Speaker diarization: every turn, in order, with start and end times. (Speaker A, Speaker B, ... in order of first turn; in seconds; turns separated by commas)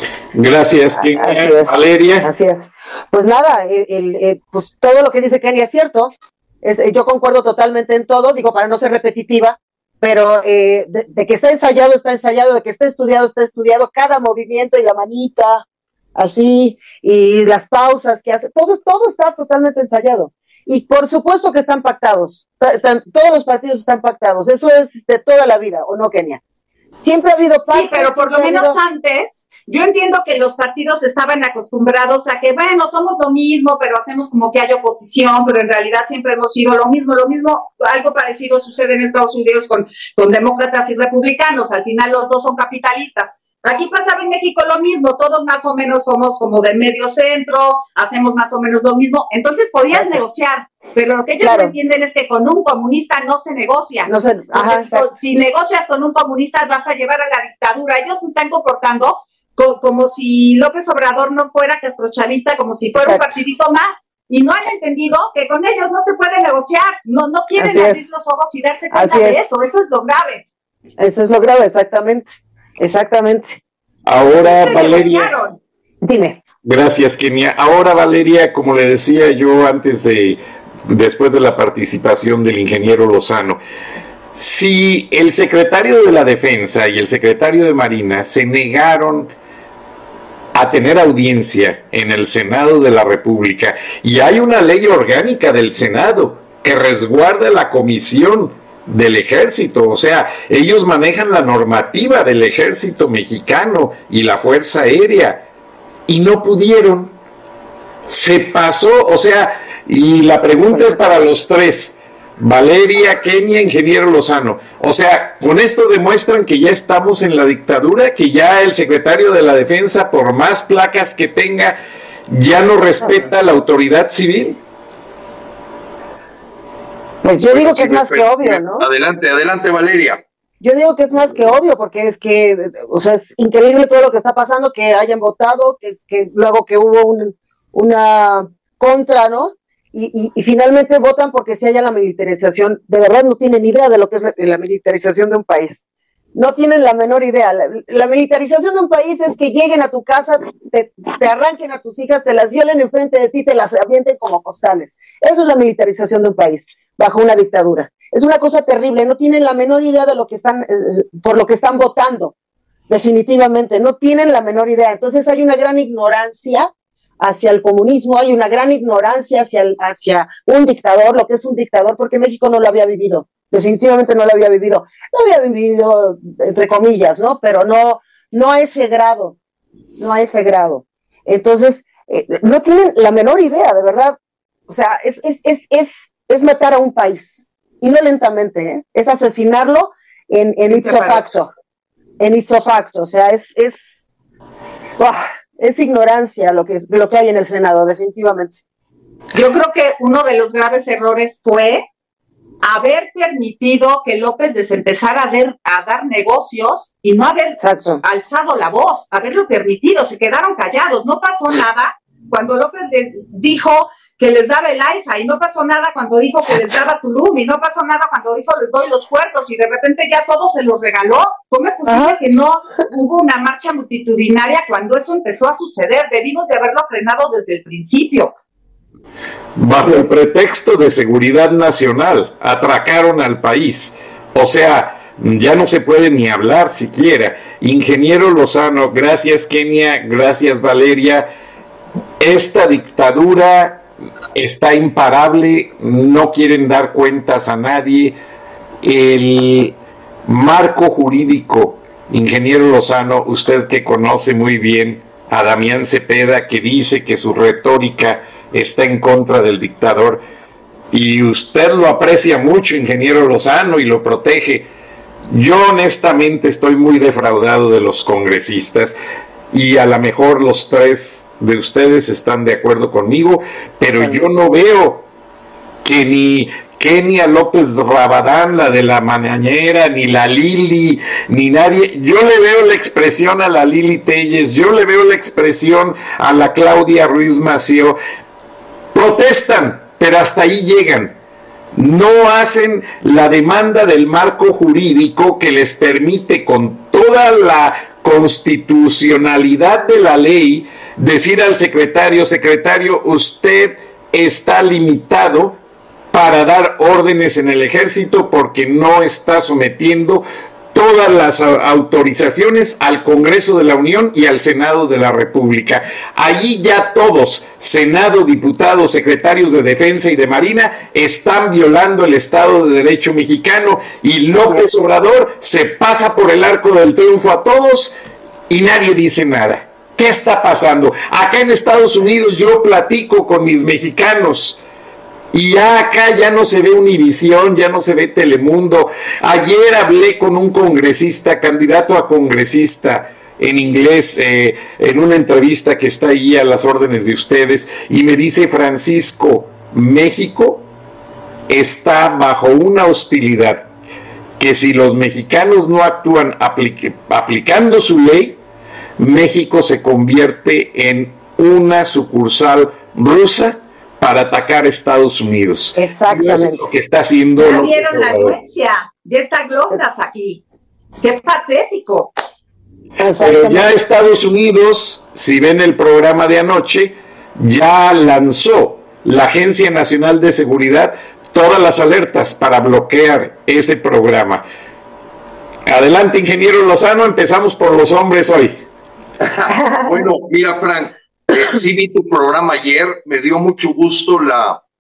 Speaker A: 0.3-2.3, Speaker B: 1.0-15.6, Speaker B: 16.2-26.4, Speaker B: 27.0-28.8, Speaker C: 27.7-70.5, Speaker B: 49.9-50.2, Speaker B: 51.4-51.7, Speaker B: 54.1-55.1, Speaker B: 63.0-63.2, Speaker B: 67.6-68.1, Speaker B: 68.9-69.4, Speaker B: 71.0-73.6, Speaker A: 74.1-75.3, Speaker C: 74.4-75.6, Speaker B: 76.0-76.4, Speaker A: 76.6-83.6, Speaker A: 84.3-89.3, Speaker A: 90.5-105.5, Speaker A: 106.1-107.1, Speaker A: 108.1-121.8, Speaker B: 110.7-111.0, Speaker A: 122.3-124.6, Speaker B: 127.2-128.8, Speaker D: 127.5-130.2, Speaker B: 130.6-145.8, Speaker B: 146.3-162.3, Speaker B: 162.9-179.4, Speaker B: 180.0-184.2, Speaker B: 184.7-191.5, Speaker C: 190.7-191.2, Speaker B: 192.2-194.1, Speaker B: 195.0-198.6, Speaker C: 199.3-201.8, Speaker C: 202.6-228.3, Speaker B: 207.6-208.0, Speaker B: 221.9-222.2, Speaker A: 229.6-241.3, Speaker B: 229.8-230.1, Speaker A: 242.2-248.2, Speaker A: 248.8-249.8, Speaker A: 250.3-260.2, Speaker A: 260.9-264.6, Speaker A: 265.3-268.9, Speaker A: 269.5-275.1, Speaker A: 275.8-288.0, Speaker A: 288.9-291.2, Speaker A: 291.8-305.6, Speaker A: 306.1-327.9, Speaker B: 324.4-324.9, Speaker A: 328.5-334.6, Speaker A: 335.3-350.7, Speaker A: 351.5-353.7, Speaker A: 354.4-358.4, Speaker A: 359.0-368.4, Speaker B: 365.8-366.7, Speaker C: 367.4-370.4, Speaker C: 371.0-372.1, Speaker B: 373.0-373.7, Speaker A: 373.2-384.4, Speaker A: 385.7-388.6, Speaker D: 389.2-394.6, Speaker B: 389.5-390.0